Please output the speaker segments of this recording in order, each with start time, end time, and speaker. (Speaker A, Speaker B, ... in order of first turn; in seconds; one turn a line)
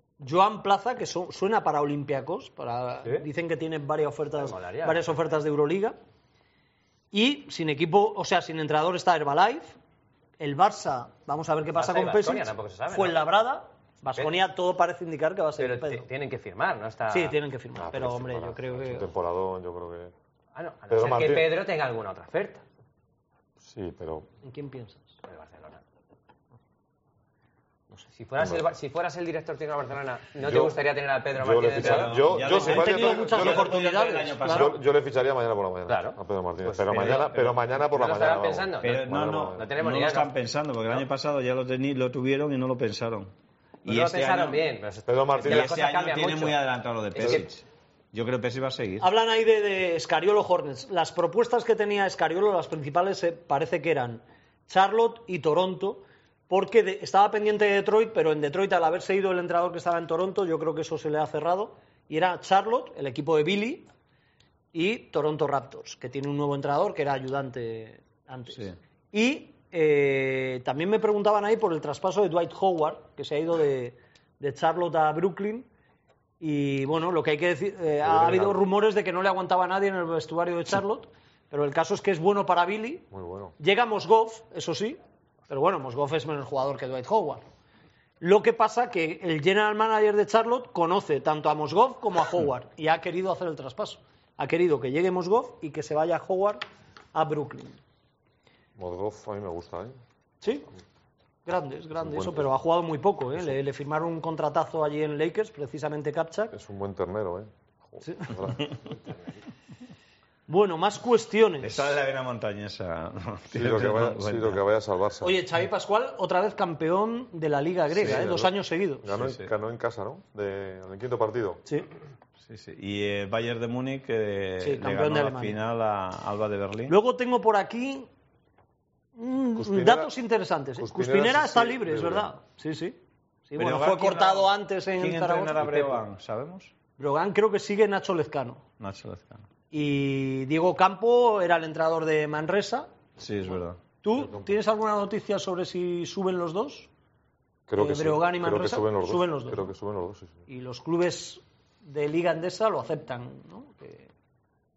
Speaker A: 0.2-6.0
Speaker B: 4.4-5.1
Speaker A: 7.1-9.8
Speaker A: 10.4-16.1
Speaker B: 11.8-13.2
Speaker B: 15.6-17.4
Speaker A: 17.1-19.1
Speaker C: 17.8-20.1
Speaker B: 20.6-22.6
Speaker C: 20.9-21.6
Speaker C: 23.6-24.3
Speaker A: 24.4-25.1
Speaker B: 25.2-25.8
Speaker B: 28.1-32.4
Speaker C: 28.4-28.6
Speaker C: 30.4-30.8
Speaker C: 31.4-33.8
Speaker D: 31.7-34.8
Speaker A: 32.5-34.7
Speaker C: 34.4-39.6
Speaker B: 35.9-40.3
Speaker D: 36.9-37.5
Speaker D: 38.8-43.3
Speaker D: 43.8-44.6
Speaker B: 43.9-46.6
Speaker C: 45.1-45.7
Speaker D: 45.4-49.1
Speaker B: 47.1-47.5
Speaker A: 49.0-63.9
Speaker A: 64.7-75.7
Speaker A: 76.4-87.4
Speaker C: 78.0-78.6
Speaker C: 83.1-83.5
Speaker A: 88.2-96.6
Speaker A: 97.1-97.8
Speaker C: 98.8-100.0
Speaker A: 100.4-100.7
Speaker A: 101.5-106.5
Speaker C: 102.0-102.5
Speaker C: 106.5-108.7
Speaker A: 108.0-108.3
Speaker A: 110.5-112.0
Speaker D: 111.6-114.6
Speaker C: 113.5-115.4
Speaker A: 115.2-119.1
Speaker C: 118.0-118.5
Speaker C: 119.0-121.6
Speaker D: 119.1-119.5
Speaker D: 122.4-127.0
Speaker A: 124.6-125.6
Speaker A: 126.9-128.1
Speaker A: 129.2-136.0
Speaker C: 129.6-130.1
Speaker C: 130.8-132.3
Speaker D: 133.6-136.7
Speaker A: 137.0-138.6
Speaker D: 138.8-139.4
Speaker A: 139.7-142.9
Speaker D: 143.2-143.8
Speaker A: 144.0-146.9
Speaker C: 144.1-144.5
Speaker C: 147.7-150.4
Speaker A: 147.8-149.7
Speaker A: 150.5-154.1